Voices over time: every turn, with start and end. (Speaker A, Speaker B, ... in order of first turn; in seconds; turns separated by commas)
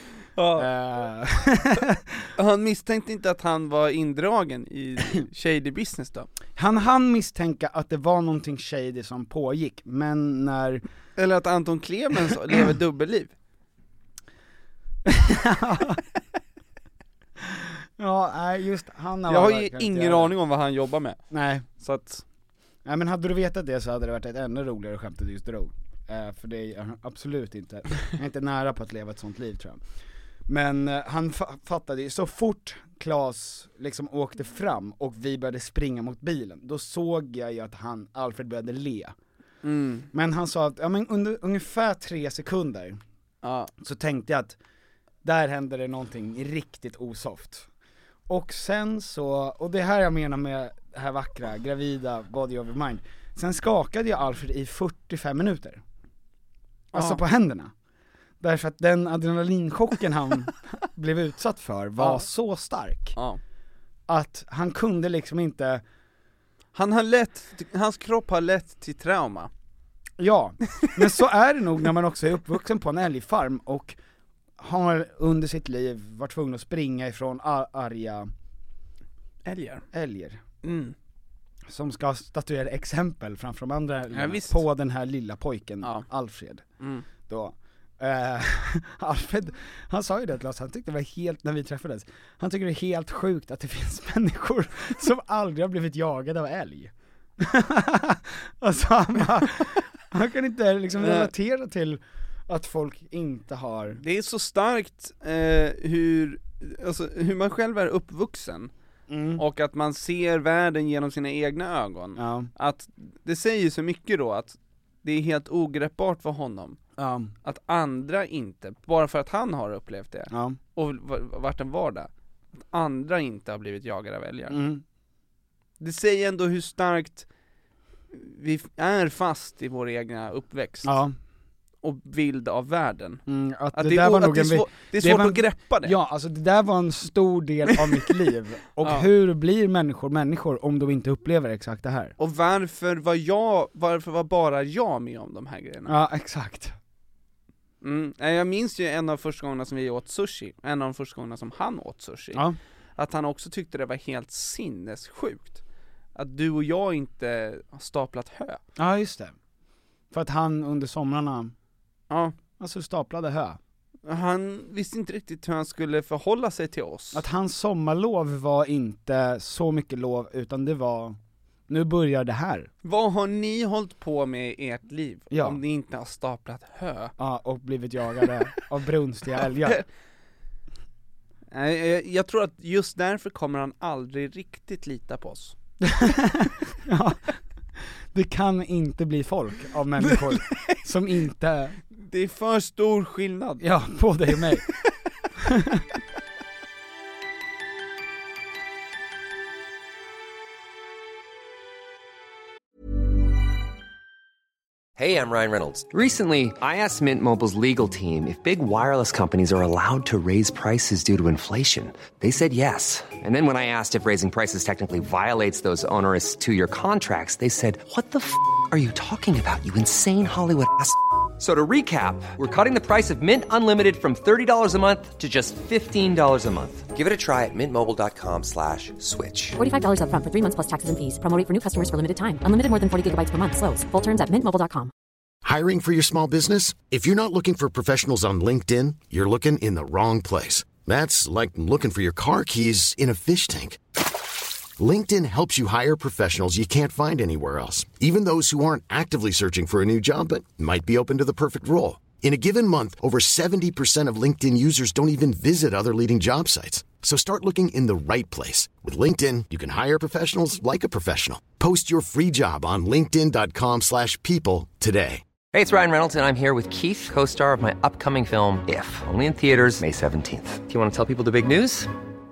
Speaker A: 0.4-0.7, Speaker B: 0.6-2.3, Speaker A: 2.4-6.3, Speaker B: 6.6-10.8, Speaker A: 11.2-13.3, Speaker B: 15.1-16.0, Speaker B: 17.4-20.3, Speaker A: 19.3-21.2, Speaker B: 21.3-21.7, Speaker A: 21.8-22.2, Speaker B: 22.9-29.8, Speaker B: 30.5-39.1, Speaker A: 39.6-40.1, Speaker B: 40.1-43.0, Speaker A: 43.4-43.7, Speaker B: 43.8-44.6, Speaker B: 45.2-47.7, Speaker B: 48.3-55.8, Speaker B: 56.9-57.7, Speaker A: 56.9-57.2, Speaker B: 58.4-63.2, Speaker A: 62.0-62.2, Speaker B: 64.1-65.8, Speaker A: 66.7-69.5, Speaker B: 70.2-74.0, Speaker B: 74.6-78.3, Speaker A: 79.5-79.8, Speaker B: 79.9-80.4, Speaker A: 80.6-81.0, Speaker B: 81.7-86.6, Speaker A: 84.1-84.6, Speaker A: 85.8-86.1, Speaker A: 86.8-87.0, Speaker B: 87.3-104.0, Speaker A: 101.0-101.3, Speaker A: 104.0-108.7, Speaker B: 109.1-109.4, Speaker A: 109.4-116.8, Speaker B: 112.2-112.5, Speaker B: 117.0-117.3, Speaker A: 117.4-124.6, Speaker B: 120.3-120.6, Speaker B: 124.5-124.8, Speaker A: 125.8-127.3, Speaker A: 128.1-130.9, Speaker B: 130.8-131.1, Speaker A: 131.8-133.2, Speaker B: 133.3-142.1, Speaker A: 133.7-135.9, Speaker A: 142.2-145.9, Speaker B: 145.9-146.8, Speaker A: 147.8-152.4, Speaker A: 153.0-155.6, Speaker A: 156.2-158.6, Speaker B: 158.8-159.4, Speaker B: 160.1-161.5, Speaker A: 162.1-162.3, Speaker B: 162.6-163.6, Speaker A: 164.1-167.2, Speaker B: 167.1-171.2, Speaker B: 171.7-172.7, Speaker A: 172.8-177.1, Speaker B: 175.3-175.6, Speaker B: 177.2-179.8, Speaker A: 181.5-185.6, Speaker B: 185.8-187.3, Speaker B: 188.1-191.8, Speaker A: 190.0-190.8, Speaker A: 192.0-193.7, Speaker B: 193.6-194.7, Speaker B: 195.4-195.8, Speaker C: 205.0-229.6, Speaker D: 229.6-234.9, Speaker E: 235.4-243.8, Speaker E: 244.8-265.2, Speaker C: 265.5-271.9